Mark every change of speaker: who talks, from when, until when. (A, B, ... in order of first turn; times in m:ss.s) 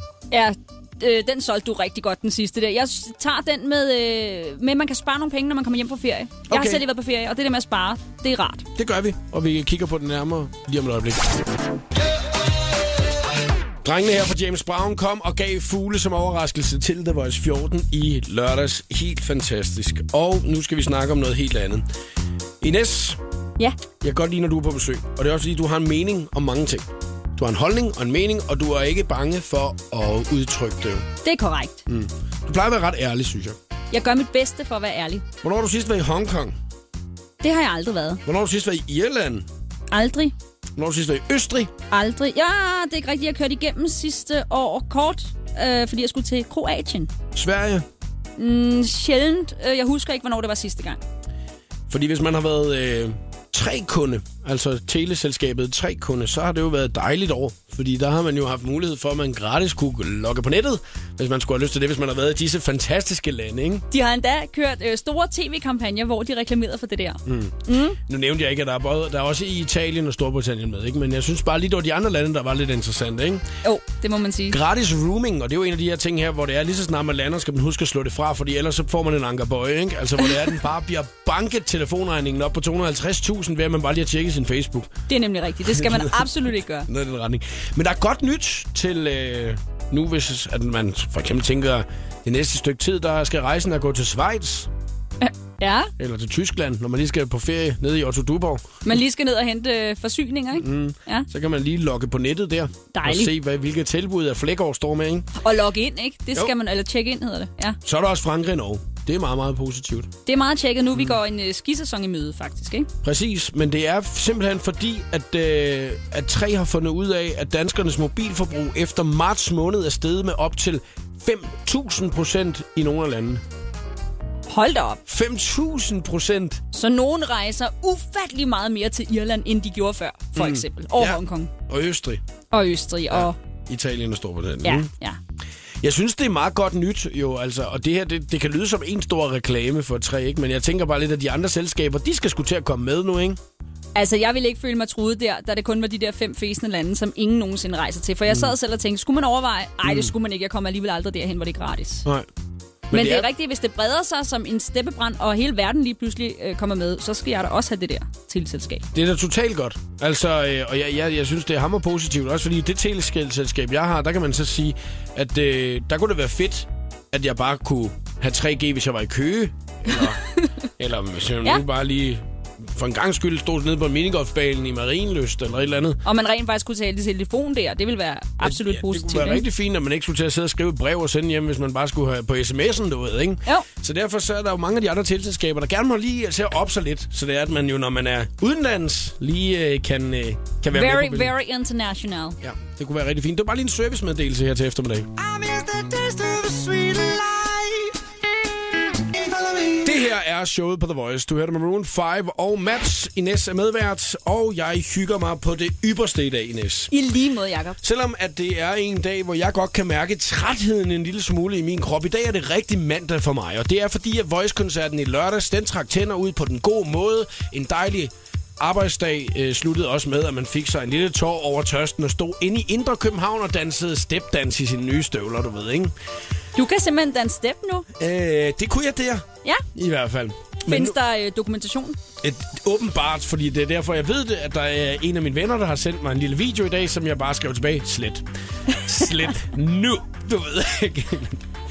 0:00.3-0:08.6 A
0:06.5-0:06.8 B
0:08.7-0:11.4 B
0:13.8-0:21.8 B
0:22.6-0:23.2 B
0:24.0-0:31.0 B
0:31.2-0:31.8 A
0:31.9-0:33.6 B
0:33.9-0:35.2 A
0:35.4-0:36.6 B
0:37.4-0:38.2 A
0:38.2-0:39.5 B
0:39.9-0:40.3 A
0:40.8-0:41.7 B
0:41.9-0:47.1 A
0:47.3-0:47.8 B
0:48.4-0:51.0 A
0:51.9-1:03.8 B
1:03.9-1:08.0 A
1:07.2-1:13.4 B
1:13.6-1:14.6 A
1:14.5-1:25.0 B
1:25.1-1:26.9 A
1:25.6-1:34.7 B
1:35.2-1:35.9 A
1:36.0-1:38.7 B
1:38.8-1:41.3 A
1:40.6-1:45.3 B
1:42.9-1:43.3 A
1:45.4-1:47.8 A
1:47.8-1:50.1 B
1:50.2-1:52.9 A
1:53.0-2:03.4 B
2:04.5-2:05.0 A
2:05.1-2:06.6 B
2:06.7-2:11.5 A
2:10.3-2:12.2 B
2:12.5-2:13.4 A
2:13.1-2:14.9 B
2:14.6-2:15.2 A
2:15.8-2:23.4 B
2:23.9-2:32.0 A
2:28.3-2:28.5 B
2:29.8-2:30.1 B
2:32.9-2:33.3 B
2:32.9-2:38.8 A
2:38.9-2:50.2 B
2:50.8-2:56.0 B
2:56.0-2:59.4 A
2:58.4-3:11.3 B
3:10.7-3:12.4 A
3:12.4-3:15.1 B
3:19.8-3:26.9 B
3:26.9-3:27.8 A
3:27.8-3:45.9 B
3:46.6-3:47.8 A
3:48.0-3:51.0 B
3:50.6-3:52.0 A
3:52.2-4:01.4 B